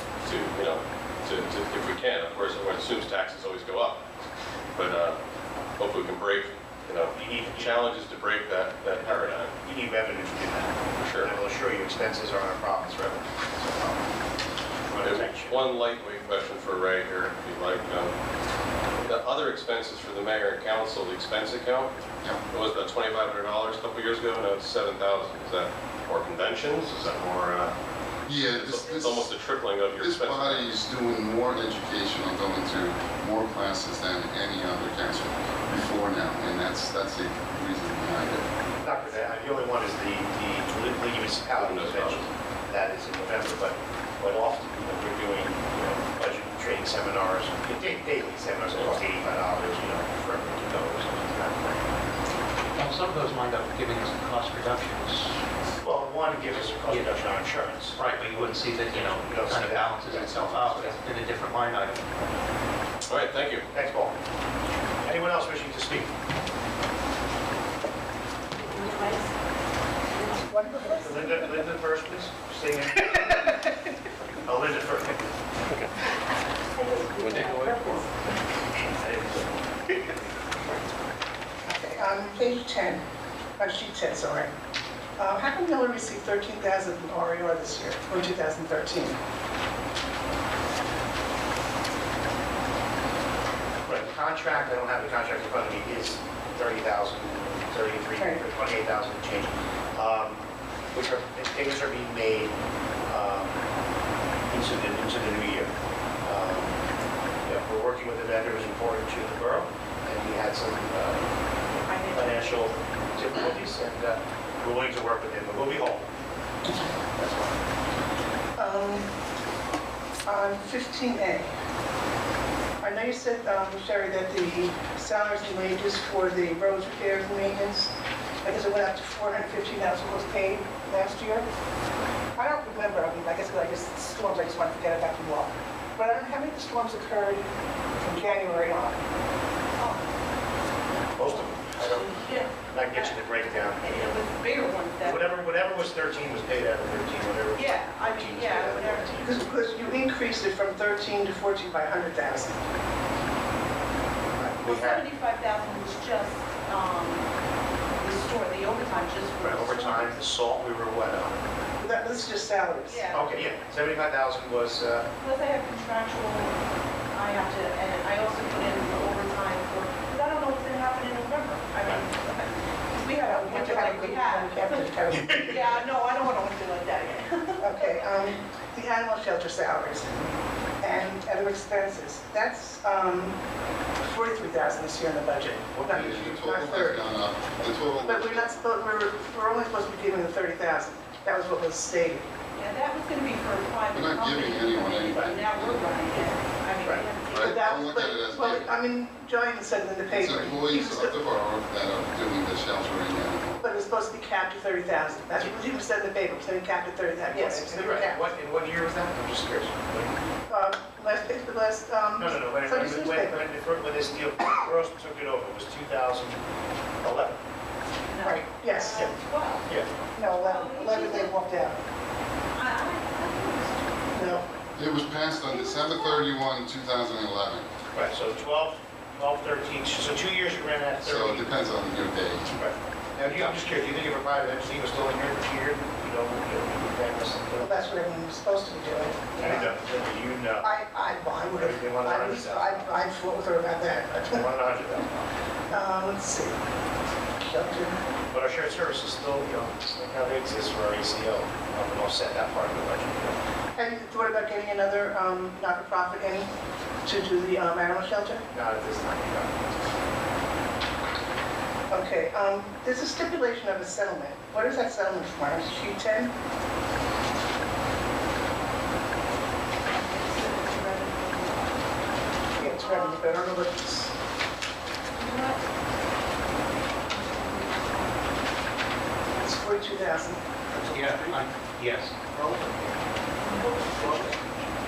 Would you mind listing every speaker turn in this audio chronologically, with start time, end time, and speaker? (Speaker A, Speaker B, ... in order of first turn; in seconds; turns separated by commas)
Speaker A: 0.2-4.0, Speaker A: 4.8-5.2, Speaker A: 5.8-9.5, Speaker B: 7.1-7.9, Speaker B: 9.6-14.1, Speaker A: 11.0-11.3, Speaker B: 14.9-15.6, Speaker A: 15.0-18.1, Speaker A: 19.0-21.9, Speaker A: 22.5-27.8, Speaker C: 28.3-29.3, Speaker A: 28.3-30.8, Speaker C: 30.0-38.5, Speaker B: 38.8-52.0, Speaker A: 41.5-42.3, Speaker D: 52.8-55.4, Speaker B: 55.8-58.0, Speaker D: 56.8-57.1, Speaker D: 58.0-62.3, Speaker B: 58.9-61.0, Speaker A: 63.1-63.7, Speaker B: 63.7-64.2, Speaker B: 65.0-66.1, Speaker E: 68.6-69.3, Speaker E: 70.1-70.4, Speaker F: 70.3-71.7, Speaker B: 71.0-73.6, Speaker B: 74.5-75.3, Speaker E: 76.8-78.0, Speaker A: 77.2-78.0, Speaker F: 81.7-83.0, Speaker F: 83.6-84.5, Speaker F: 85.2-89.2, Speaker B: 93.8-102.5, Speaker F: 98.2-98.4, Speaker B: 103.0-103.6, Speaker B: 104.5-105.7, Speaker B: 106.2-106.8, Speaker B: 107.4-111.3, Speaker E: 111.8-112.6, Speaker B: 112.1-116.1, Speaker B: 117.2-117.6, Speaker F: 118.6-119.1, Speaker F: 120.2-121.5, Speaker F: 122.8-127.9, Speaker F: 128.4-131.4, Speaker F: 132.4-137.5, Speaker F: 138.0-139.0, Speaker E: 139.8-140.1, Speaker B: 141.1-144.0, Speaker E: 141.2-145.4, Speaker B: 145.0-149.4, Speaker E: 147.5-149.2, Speaker F: 149.2-152.6, Speaker B: 154.4-155.1, Speaker E: 154.6-157.3, Speaker E: 158.0-160.2, Speaker B: 159.4-161.4, Speaker F: 161.8-163.3, Speaker E: 162.8-163.3, Speaker B: 163.1-165.1, Speaker E: 165.2-166.6, Speaker E: 167.1-178.2, Speaker F: 173.2-175.8, Speaker B: 175.1-175.9, Speaker F: 177.6-180.3, Speaker F: 180.8-183.4, Speaker F: 184.0-187.1, Speaker B: 185.7-186.0, Speaker C: 185.8-188.7, Speaker F: 188.0-192.3, Speaker E: 192.6-197.8, Speaker C: 193.9-195.8, Speaker C: 197.3-198.7, Speaker F: 197.4-201.2, Speaker C: 200.1-203.7, Speaker F: 203.6-208.2, Speaker B: 207.3-210.1, Speaker F: 210.5-213.5, Speaker B: 212.2-216.4, Speaker B: 217.0-217.4, Speaker E: 218.1-221.4, Speaker F: 218.2-219.2, Speaker F: 220.2-221.8, Speaker E: 222.5-224.2, Speaker F: 224.1-224.5, Speaker C: 224.8-227.7, Speaker E: 225.4-226.3, Speaker B: 227.9-231.6, Speaker C: 231.0-232.5, Speaker B: 232.5-237.8, Speaker F: 237.6-239.8, Speaker B: 239.3-240.7, Speaker F: 240.6-244.5, Speaker B: 241.4-243.0, Speaker B: 244.2-245.2, Speaker F: 245.7-246.6, Speaker F: 247.4-248.0, Speaker B: 248.3-253.4, Speaker F: 253.8-256.5, Speaker F: 257.1-258.4, Speaker B: 258.5-259.6, Speaker F: 261.9-266.3, Speaker E: 269.9-271.8, Speaker F: 272.6-274.1, Speaker E: 272.6-273.3, Speaker E: 275.1-275.7, Speaker E: 277.0-278.4, Speaker F: 279.4-280.4, Speaker D: 280.9-282.2, Speaker E: 283.4-284.3